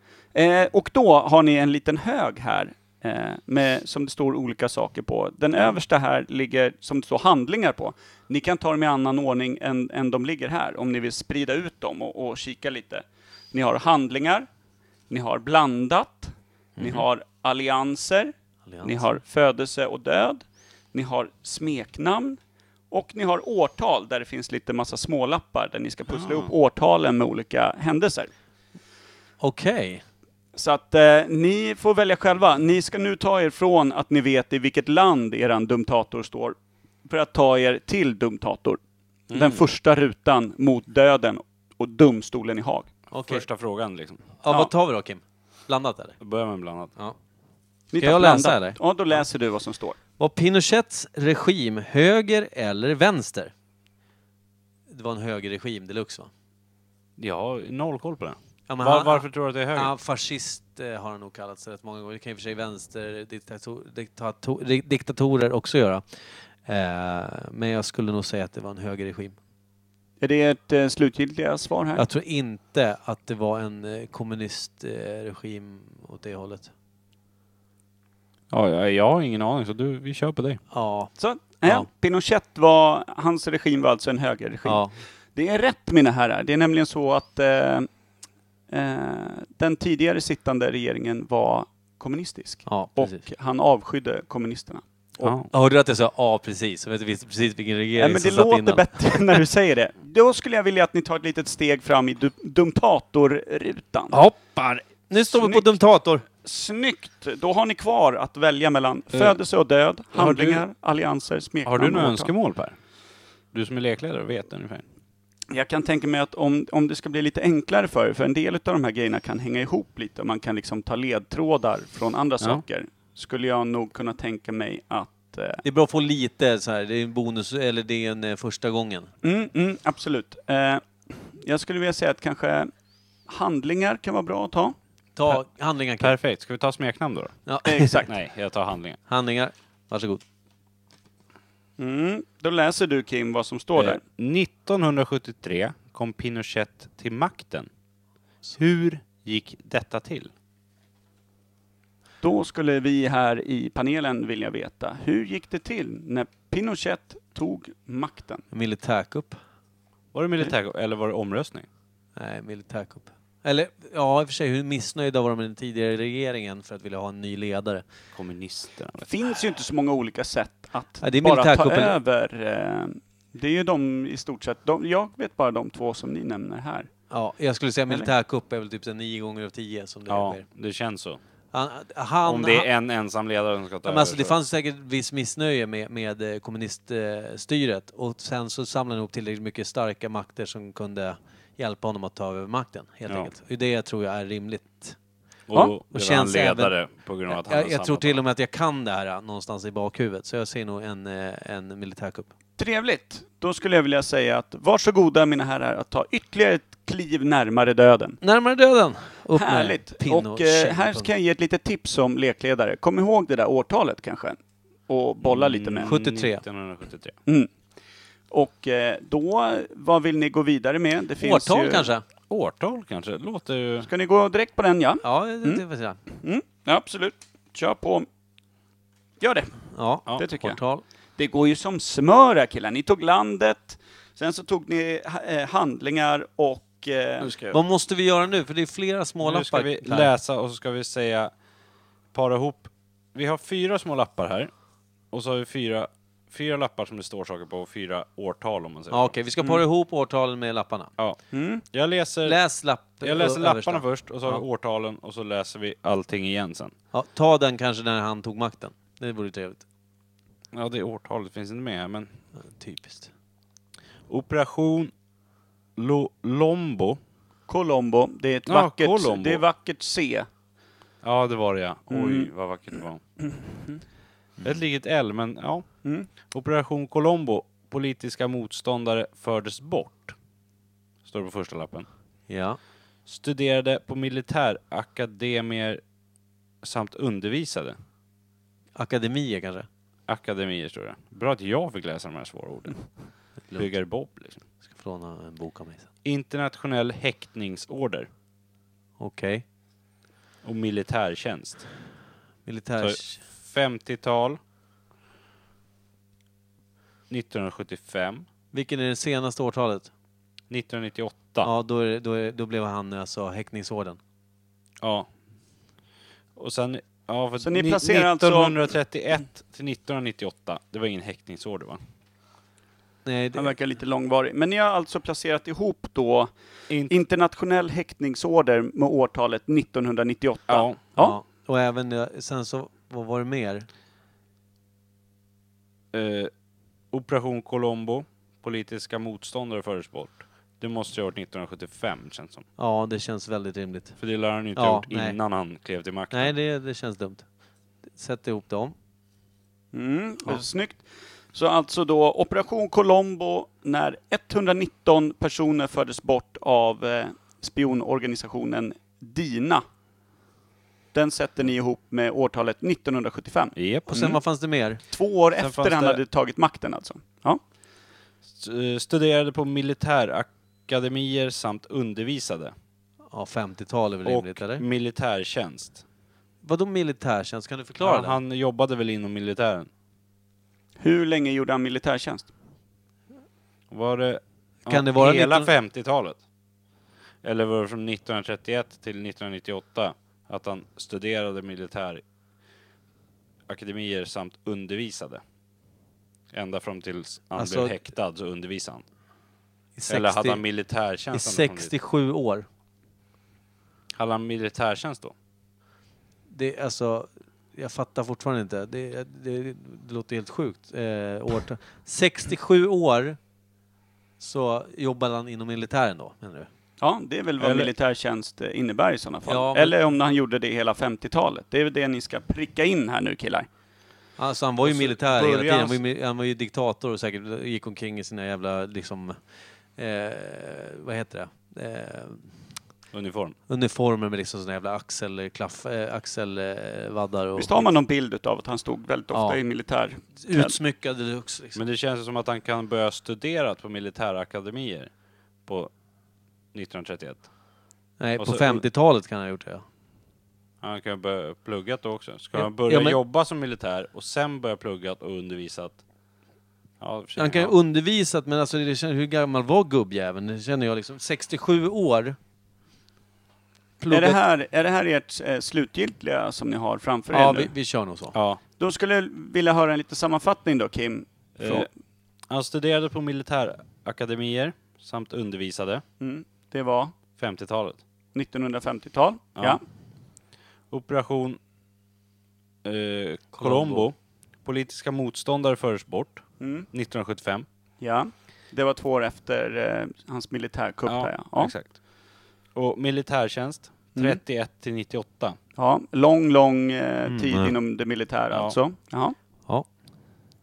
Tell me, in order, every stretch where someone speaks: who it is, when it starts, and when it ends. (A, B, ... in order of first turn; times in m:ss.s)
0:00.3-0:14.5 A
0:15.1-0:18.3 A
0:18.7-0:19.2 B
0:18.8-0:22.4 A
0:22.9-0:28.3 A
0:26.1-0:26.5 C
0:29.4-0:30.0 B
0:30.6-0:38.8 A
0:39.3-0:39.6 C
0:39.3-0:42.9 A
0:43.1-0:43.4 B
0:43.2-0:44.2 C
0:44.4-0:46.2 B
0:46.2-0:46.9 C
0:47.9-0:50.0 A
0:48.0-0:48.8 B
0:50.2-0:53.5 B
0:54.9-0:56.3 B
0:57.2-0:59.9 C
0:58.7-1:06.0 B
1:06.6-1:09.4 B
1:10.2-1:12.0 A
1:12.0-1:16.7 B
1:18.5-1:20.6 C
1:20.7-1:21.1 B
1:21.2-1:24.8 A
1:24.6-1:25.0 B
1:25.4-1:27.9 A
1:28.7-1:35.4 A
1:32.7-1:33.2 B
1:35.2-1:35.5 C
1:35.5-1:39.4 B
1:38.0-1:44.2 A
1:44.1-1:46.2 B
1:45.3-1:52.3 A
1:49.1-1:49.4 C
1:50.1-1:50.6 C
1:51.7-1:52.8 C
1:53.5-1:54.8 C
1:55.5-2:05.6 A
2:05.6-2:09.1 B
2:09.2-2:12.7 A
2:13.3-2:14.8 A
2:15.2-2:16.2 B
2:16.0-2:17.4 C
2:17.5-2:18.0 B
2:17.6-2:18.1 A
2:18.1-2:19.0 C
2:19.1-2:20.2 B
2:21.8-2:24.0 A
2:23.8-2:27.7 C
2:28.5-2:30.3 C
2:32.2-2:38.4 A
2:38.5-2:39.4 B
2:40.1-2:41.7 C
2:42.2-2:47.8 B
2:48.1-2:49.1 C
2:49.1-2:56.9 A
2:51.0-2:52.0 B
2:57.1-3:00.4 B
3:00.1-3:01.2 C
3:01.5-3:02.7 B
3:02.2-3:04.4 C
3:03.8-3:15.0 B
3:15.5-3:18.2 C
3:15.9-3:16.7 B
3:17.3-3:22.3 B
3:22.6-3:28.2 A
3:28.2-3:31.1 B
3:29.4-3:35.9 A
3:35.2-3:37.2 C
3:35.8-3:36.4 B
3:38.3-3:41.9 A
3:41.2-3:42.0 B
3:42.3-3:43.9 C
3:43.8-3:45.6 A
3:45.0-3:46.0 B
3:46.1-3:48.1 A
3:49.2-3:50.6 A
3:49.7-3:50.8 B
3:51.2-3:57.4 A
3:57.2-3:57.6 C
3:57.5-4:00.1 B
3:59.2-4:01.3 C
4:02.1-4:04.5 C
4:05.1-4:09.2 C
4:08.9-4:10.9 B
4:11.3-4:11.6 A
4:11.7-4:12.4 C
4:12.2-4:14.4 B
4:13.0-4:16.7 C
4:16.9-4:19.6 B
4:20.5-4:22.1 C
4:22.4-4:23.1 B
4:24.1-4:24.9 C
4:25.8-4:27.0 C
4:27.5-4:30.3 A
4:28.5-4:29.4 C
4:31.0-4:33.0 C
4:31.9-4:32.3 A
4:33.2-4:33.8 A
4:34.4-4:35.7 C
4:36.3-4:40.2 C
4:41.0-4:41.9 C
4:42.3-4:42.6 B
4:43.1-4:45.8 C
4:46.6-4:47.8 C
4:48.8-4:49.7 B
4:50.1-4:52.8 C
4:53.5-4:53.7 B
4:53.6-4:54.4 C
4:54.6-4:55.9 B
4:56.0-4:58.1 C
4:59.0-4:59.4 B
5:00.4-5:01.6 C
5:02.5-5:03.2 B
5:02.8-5:04.4 C
5:07.1-5:08.2 C
5:08.5-5:09.9 B
5:10.5-5:11.5 C
5:11.4-5:14.0 B
5:14.8-5:15.1 C
5:16.4-5:21.8 C
5:17.4-5:18.6 A
5:23.0-5:23.5 B
5:23.4-5:26.3 A
5:26.7-5:27.0 C
5:26.9-5:31.2 A
5:30.5-5:30.8 C
5:31.0-5:33.7 B
5:35.9-5:36.3 C
5:36.9-5:42.4 C
5:42.6-5:44.0 B
5:44.0-5:46.4 C
5:44.6-5:45.2 B
5:46.1-5:47.2 B
5:48.0-5:48.7 B
5:49.7-5:59.6 A
6:00.9-6:03.5 A
6:03.6-6:04.2 C
6:03.9-6:04.8 B
6:04.9-6:07.4 A
6:05.4-6:06.0 C
6:08.3-6:12.5 C
6:13.1-6:14.6 B
6:14.0-6:15.8 C
6:16.4-6:18.2 B
6:17.8-6:19.7 C
6:20.8-6:22.3 A
6:23.7-6:26.2 C
6:24.6-6:25.5 B
6:27.2-6:32.0 C
6:33.5-6:35.2 C
6:36.3-6:38.8 C
6:37.4-6:37.8 B
6:39.8-6:40.4 B
6:39.9-6:41.7 C
6:41.1-6:42.5 B
6:44.0-6:45.2 C
6:46.3-6:53.2 B
6:54.2-6:56.5 B
6:56.8-7:03.5 A
6:57.4-6:57.7 C
6:59.3-6:59.8 B
7:04.2-7:09.2 B
7:04.6-7:05.8 C
7:09.8-7:12.3 B
7:12.9-7:13.4 C
7:13.5-7:17.7 B
7:17.4-7:20.6 A
7:19.1-7:19.4 B
7:20.2-7:21.6 B
7:21.6-7:24.9 C
7:25.4-7:25.7 C
7:26.5-7:27.3 C
7:28.0-7:29.6 B
7:28.2-7:28.6 C
7:30.6-7:35.8 C
7:32.4-7:33.0 B
7:36.8-7:37.6 C
7:37.2-7:42.2 B
7:43.8-7:44.2 B
7:43.9-7:47.5 A
7:47.1-7:48.2 B
7:48.2-7:48.4 C
7:48.6-7:51.7 A
7:51.4-7:51.7 C
7:52.3-7:55.8 C
7:56.0-7:57.0 A
7:57.2-7:57.8 C
7:58.1-7:59.6 A
8:00.7-8:01.4 C
8:02.6-8:07.5 C
8:03.4-8:03.9 B
8:06.4-8:06.7 A
8:07.8-8:11.5 A
8:10.9-8:11.8 C
8:12.6-8:15.4 C
8:15.6-8:19.2 A
8:17.1-8:17.6 B
8:18.3-8:18.6 C